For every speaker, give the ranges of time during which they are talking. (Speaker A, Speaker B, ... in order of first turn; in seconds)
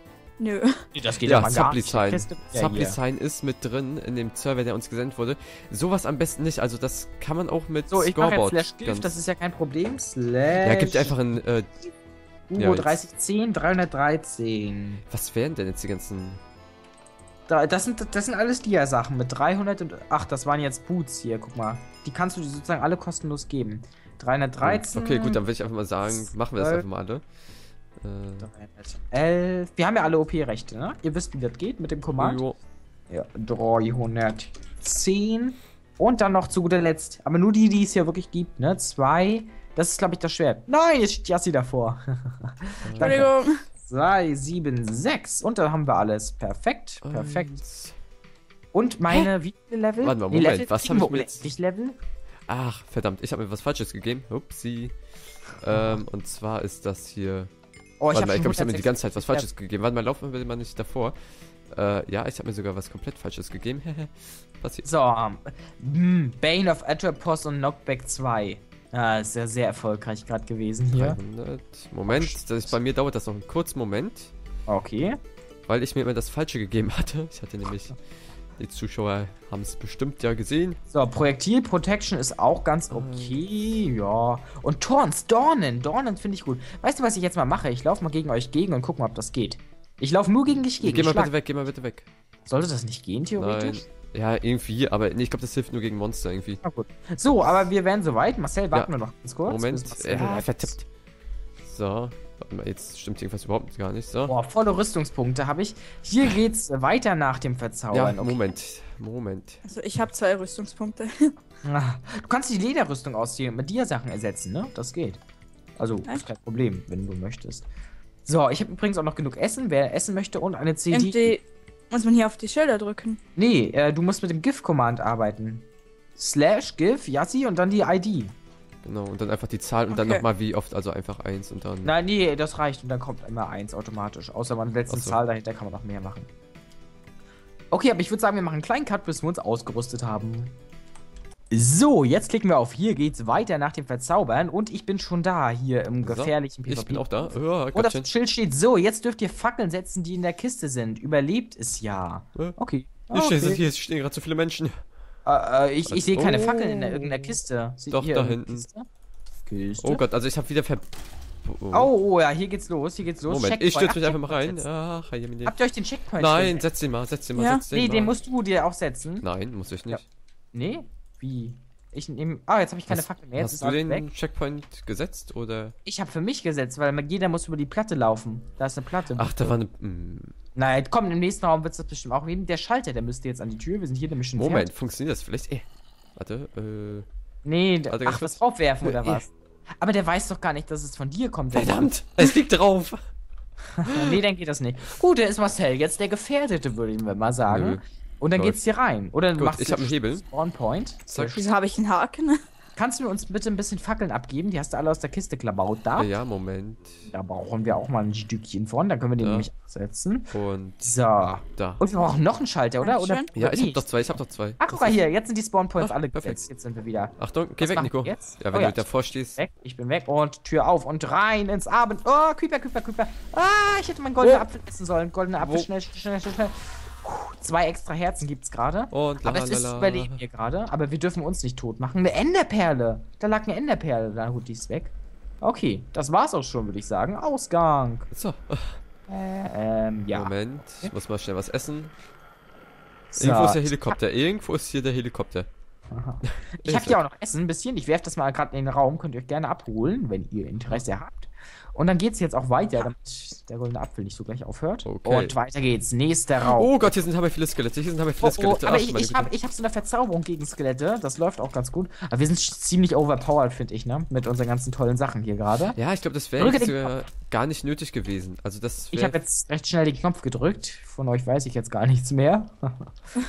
Speaker A: 0.4-0.9, 25.0-25.4, 43.0-43.6, 109.6-111.3, 120.9-123.2, 129.9-130.2, 167.4-167.6, 201.3-202.4, 212.8-213.3
Speaker B: 0.9-3.0, 7.9-11.2, 12.5-15.0, 17.5-25.1, 26.1-26.9, 28.4-32.4, 33.1-43.3, 43.8-47.6, 48.7-52.0, 55.7-56.0, 58.0-59.5, 64.8-71.2, 72.1-72.8, 74.7-75.2, 80.9-91.3, 92.5-93.9, 96.6-100.8, 104.3-108.5, 111.6-115.2, 115.8-117.7, 118.3-121.4, 123.4-125.7, 126.2-128.3, 131.8-136.3, 137.7-140.5, 141.5-153.6, 155.3-158.9, 159.5-160.0, 161.7-164.6, 165.5-166.7, 167.7-169.2, 170.5-174.1, 175.8-179.6, 180.6-184.7, 187.4-191.9, 193.8-201.4, 202.8-206.1, 207.1-210.3, 210.8-238.1, 239.1-240.9, 243.1-244.0, 245.9-256.9, 258.2-265.8, 266.4-267.0, 268.9-272.9
Speaker C: 1.2-9.2, 10.6-11.8, 12.6-13.0, 15.1-16.4, 24.6-27.3, 28.0-28.5, 32.2-32.6, 42.8-43.3, 47.0-48.0, 50.0-51.5, 52.5-55.0, 55.5-57.5, 58.1-61.2, 61.7-64.9, 70.9-74.3, 75.7-78.0, 78.6-80.8, 82.9-83.4, 90.8-92.1, 93.4-96.6, 99.5-100.8, 101.6-104.3, 107.9-109.6, 128.8-131.9, 134.9-135.2, 146.0-148.1, 153.1-154.8, 155.9-157.4, 157.9-158.7, 159.8-160.9, 161.4-161.9, 163.3-165.6, 166.2-168.2, 169.2-170.0, 172.9-175.8, 179.1-180.3, 184.4-187.1, 187.9-189.2, 191.5-193.0, 193.8-194.2, 197.5-197.8, 199.3-200.2, 201.1-201.4, 206.0-207.1, 209.2-209.5, 210.3-210.9, 211.6-211.8, 213.3-215.0, 215.8-216.5, 217.2-219.4, 224.2-224.5, 225.4-225.7, 228.9-230.2, 238.1-238.8, 240.1-241.9, 243.2-245.5, 246.2-247.0, 254.8-255.4, 256.4-259.3, 265.7-269.2